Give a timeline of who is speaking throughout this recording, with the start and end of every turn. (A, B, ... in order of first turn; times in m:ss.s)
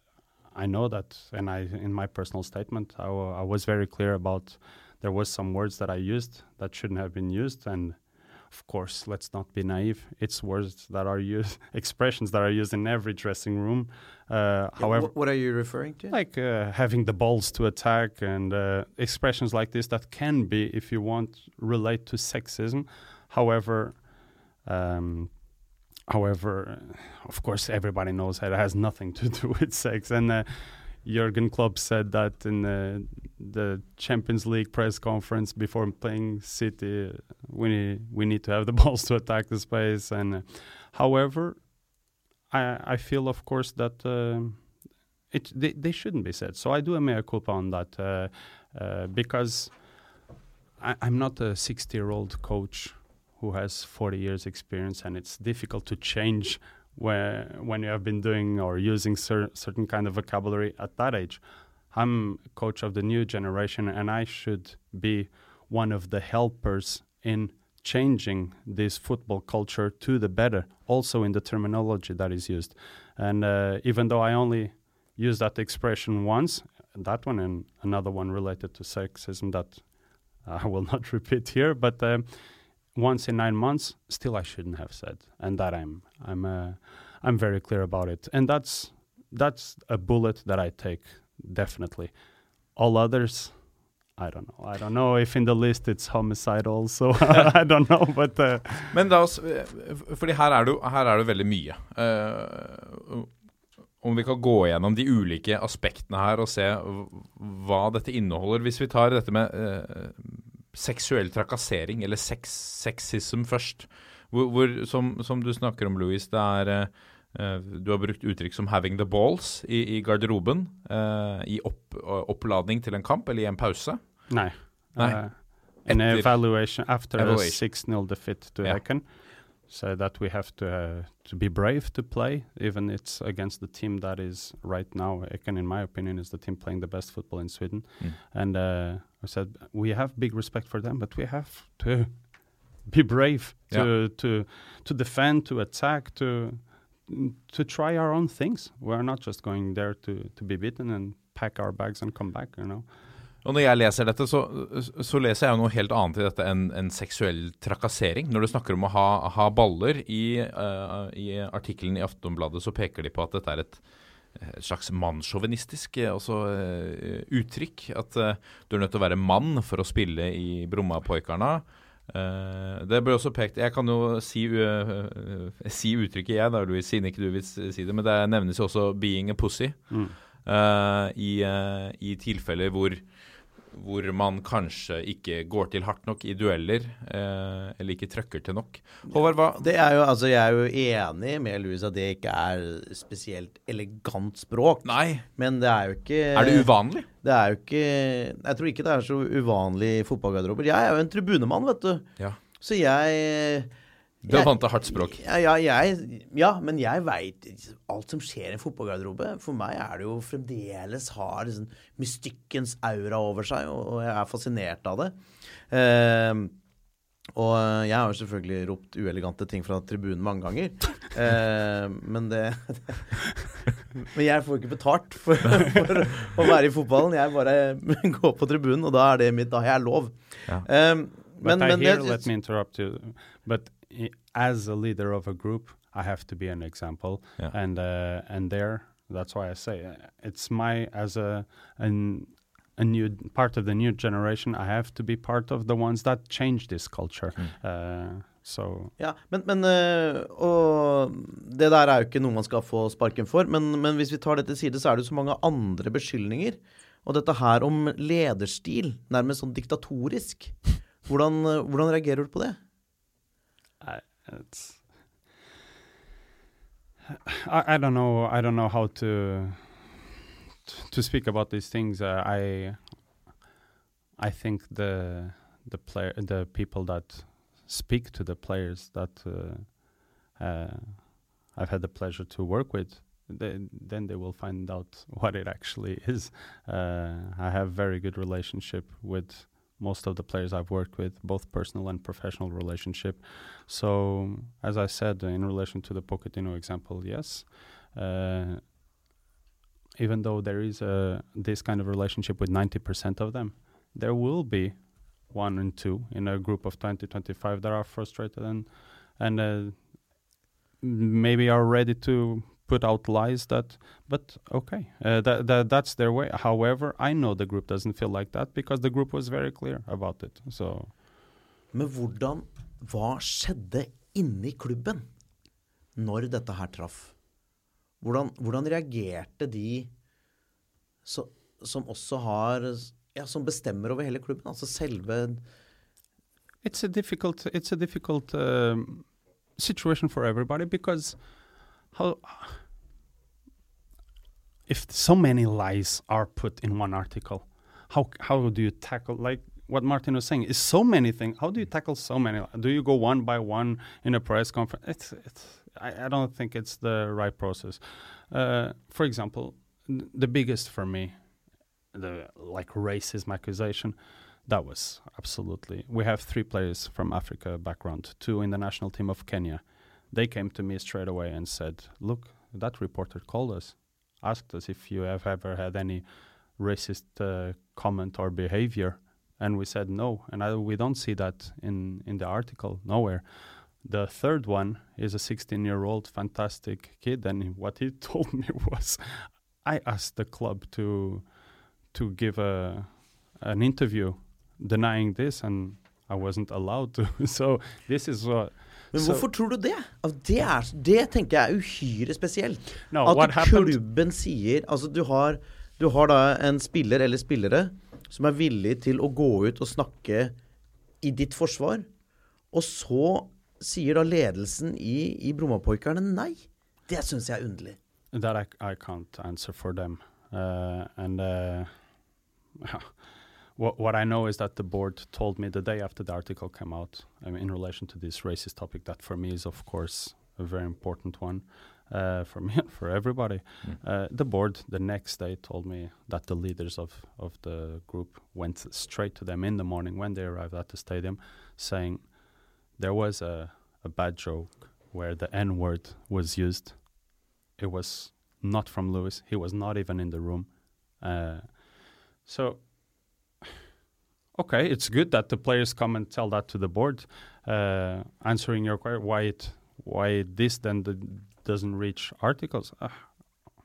0:00.5-0:24.1 A
0:14.8-0:16.1 B
0:24.6-0:25.5 A
0:26.1-0:41.7 A
0:42.5-0:44.7 A
0:45.3-0:49.8 A
0:50.8-1:32.2 A
1:32.7-1:38.9 A
1:38.9-1:43.3 C
1:44.0-2:08.8 C
2:04.3-2:32.9 A
2:33.4-3:09.6 C
2:59.9-3:00.1 A
3:09.1-3:22.0 B
3:14.8-3:15.2 C
3:16.3-3:17.1 C
3:22.6-3:23.7 B
3:24.2-3:25.2 C
3:24.3-3:36.5 B
3:37.3-3:43.3 B
3:44.0-3:52.3 B
3:51.4-4:08.9 A
4:09.0-4:22.6 B
4:23.8-4:24.8 A
4:27.3-4:30.0 A
4:30.6-4:32.8 A
4:34.2-4:58.7 A
5:00.0-5:10.0 A
5:10.8-5:20.9 A
5:21.7-5:25.1 B
5:25.9-5:27.1 B
5:28.0-5:29.9 B
5:31.0-5:35.4 B
5:36.6-5:41.2 A
5:41.9-5:42.6 A
5:44.7-6:01.2 A
6:01.9-6:16.0 A
6:16.6-6:31.3 A
6:31.9-6:39.2 A
6:38.9-6:50.3 B
6:42.9-6:43.8 A
6:51.0-6:51.9 B
6:52.5-6:57.8 B
6:58.1-7:01.8 A
7:02.6-7:02.9 A
7:03.5-7:27.0 A
7:27.6-7:32.8 A
7:34.3-7:43.2 A